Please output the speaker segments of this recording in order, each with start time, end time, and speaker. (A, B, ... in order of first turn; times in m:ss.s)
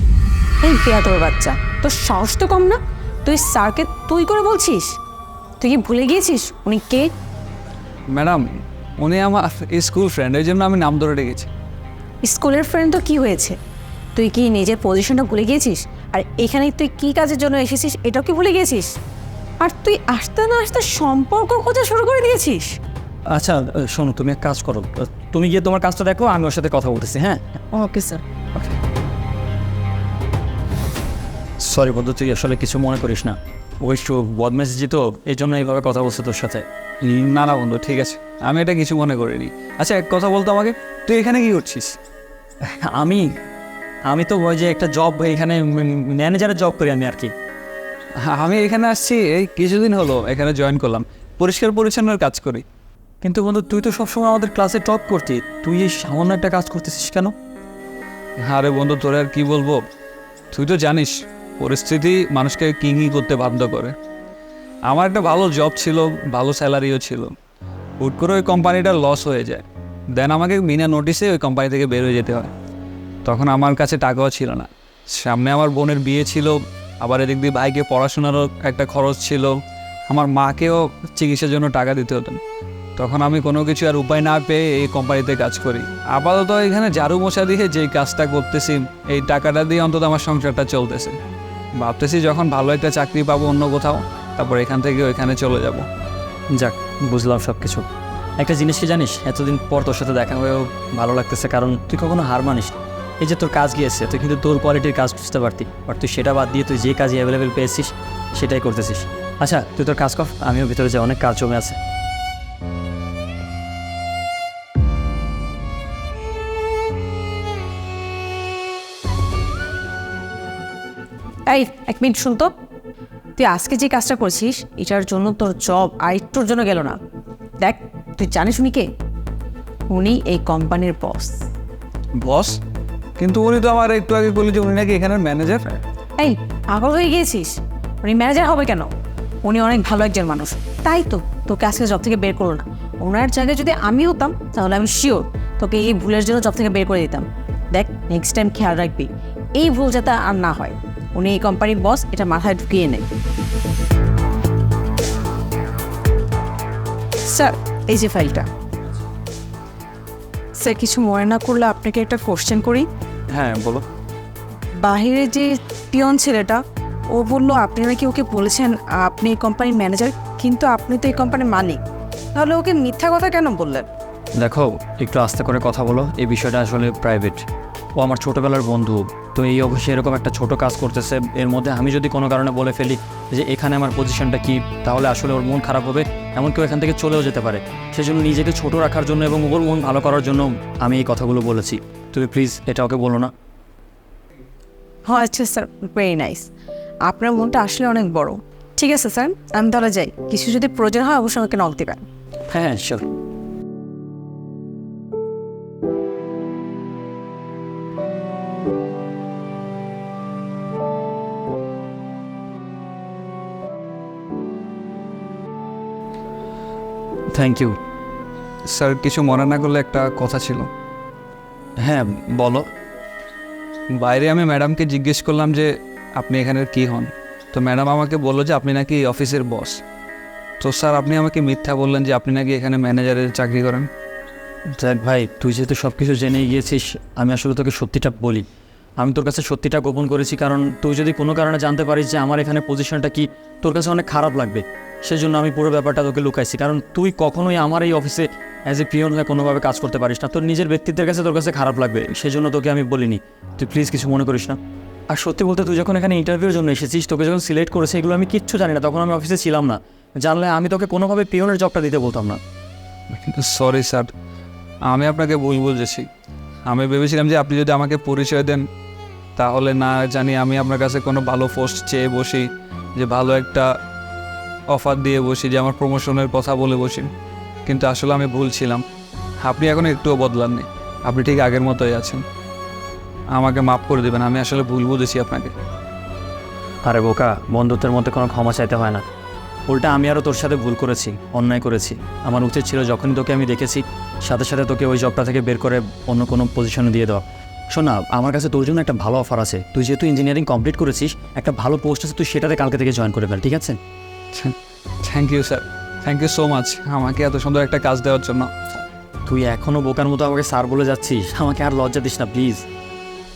0:00.6-0:05.0 A
0:05.6-0:07.1 A
0:08.1-0:11.5 B
0:12.2-0:13.6 A
0:14.2-0:18.9 A
0:19.6-0:22.8 A
0:23.3-0:27.4 C
0:27.7-0:28.2 A
0:31.6-0:36.6 C
0:37.0-0:42.0 B
0:42.6-0:43.2 C
0:44.1-0:47.3 C
0:48.3-0:52.6 B
0:53.2-0:57.3 C
0:58.4-0:59.8 B
1:00.5-1:03.9 B
1:04.9-1:07.3 B
1:08.0-1:09.6 B
1:10.2-1:12.5 B
1:13.2-1:19.6 B
1:20.1-1:22.4 B
1:23.0-1:31.2 B
1:31.8-1:35.9 B
1:36.5-1:37.9 C
1:38.4-1:51.8 C
2:01.5-2:02.5 A
2:03.4-2:07.0 A
2:07.6-2:08.9 A
2:09.9-2:11.4 A
2:12.2-2:12.6 B
2:13.2-2:15.8 B
2:16.2-2:18.9 A
2:19.4-2:33.1 A
2:37.3-2:38.5 A
2:40.6-2:42.9 A
2:43.3-2:43.8 C
2:44.8-2:46.6 A
2:47.1-2:51.8 A
2:52.3-2:53.9 A
2:54.4-2:57.4 C
2:58.0-3:13.3 C
3:15.1-3:16.5 A
3:17.1-3:22.0 A
3:22.5-3:23.1 C
3:37.3-3:37.8 C
3:38.7-3:40.7 B
3:41.8-3:42.7 C
3:43.9-3:49.8 B
3:50.6-3:53.9 B
3:54.8-3:58.4 C
3:59.0-4:14.6 C
4:15.1-4:22.4 C
4:23.1-4:24.1 B
4:24.9-4:26.1 B
4:26.7-4:28.6 B
4:29.4-4:33.7 B
4:34.7-4:37.1 B
4:37.7-4:38.8 B
4:39.4-4:42.2 B
4:43.3-4:45.6 B
4:46.8-4:49.1 C
4:49.7-5:03.8 C
5:04.3-5:08.5 B
5:09.3-5:12.6 C